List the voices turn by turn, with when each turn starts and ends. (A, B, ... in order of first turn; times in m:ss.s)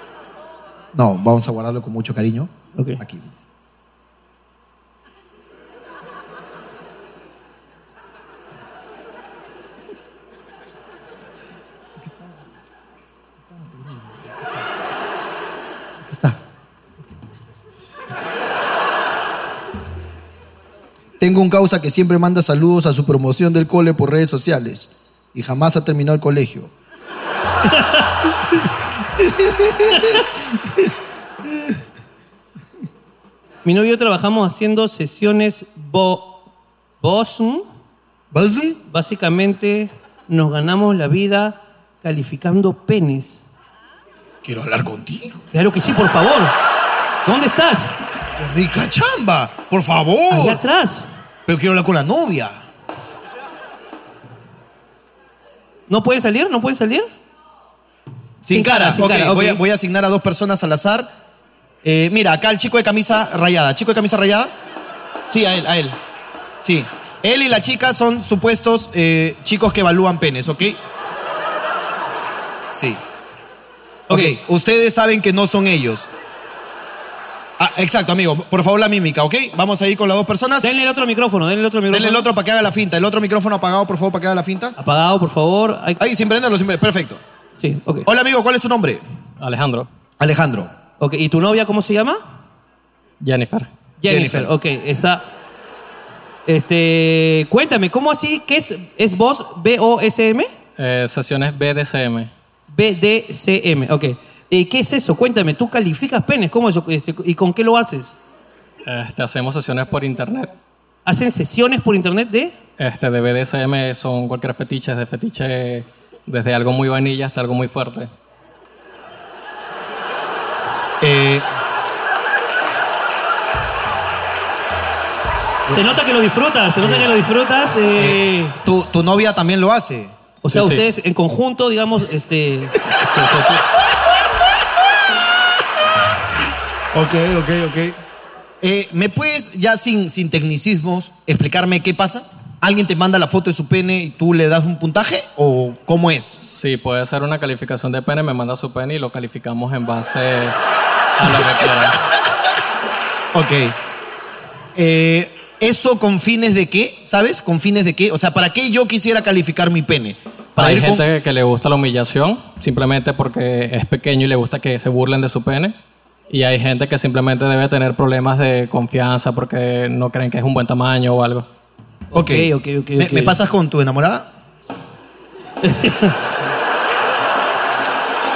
0:00.9-0:03.3 A
0:02.8-0:03.0 B
0:16.1-0:16.4 A
0:21.2-0:26.7 A
0:29.2-0:30.2 A
0:33.6-0:36.4 B
0:37.0-0:37.6 B
0:38.3-0:38.8 A
0:38.9-0:43.4 B
0:44.4-0:45.4 A
0:45.5-0:46.5 B
0:47.2-0:48.0 B
0:48.4-0:50.6 A
0:50.3-0:51.1 B
0:51.5-0:52.6 A
0:55.9-0:57.1 B
0:58.4-1:01.1 A
0:58.5-0:59.6 B
1:01.8-1:04.5 A
1:05.3-1:06.0 A
1:06.6-1:10.8 A
1:12.7-1:13.0 A
1:14.1-1:14.4 B
1:14.1-1:16.1 A
1:17.6-1:20.7 A
1:20.6-1:22.3 B
1:21.9-1:24.8 A
1:24.8-1:26.0 B
1:26.0-1:27.2 A
1:27.6-1:28.1 B
1:28.1-1:29.0 A
1:29.4-1:29.9 C
1:30.2-1:30.7 A
1:31.0-1:32.2 B
1:33.2-1:33.7 C
1:34.0-1:35.2 B
1:34.0-1:34.5 A
1:36.5-1:40.5 B
1:40.8-1:42.3 C
1:42.7-1:48.2 B
1:48.9-1:50.5 C
1:51.1-1:52.6 B
1:52.8-1:58.1 C
2:01.0-2:01.5 A
2:05.7-2:08.6 B
2:06.8-2:07.1 A
2:08.0-2:10.1 A
2:10.4-2:13.6 B
2:10.5-2:10.8 C
2:16.9-2:18.0 A
2:18.6-2:26.4 A
2:26.4-2:30.6 C
2:31.2-2:32.0 C
2:33.3-2:33.8 A
2:34.8-2:41.0 A
2:40.6-2:45.7 C
2:46.3-2:51.4 C
2:52.1-2:53.4 B
2:52.1-2:54.3 A
2:55.6-2:56.2 B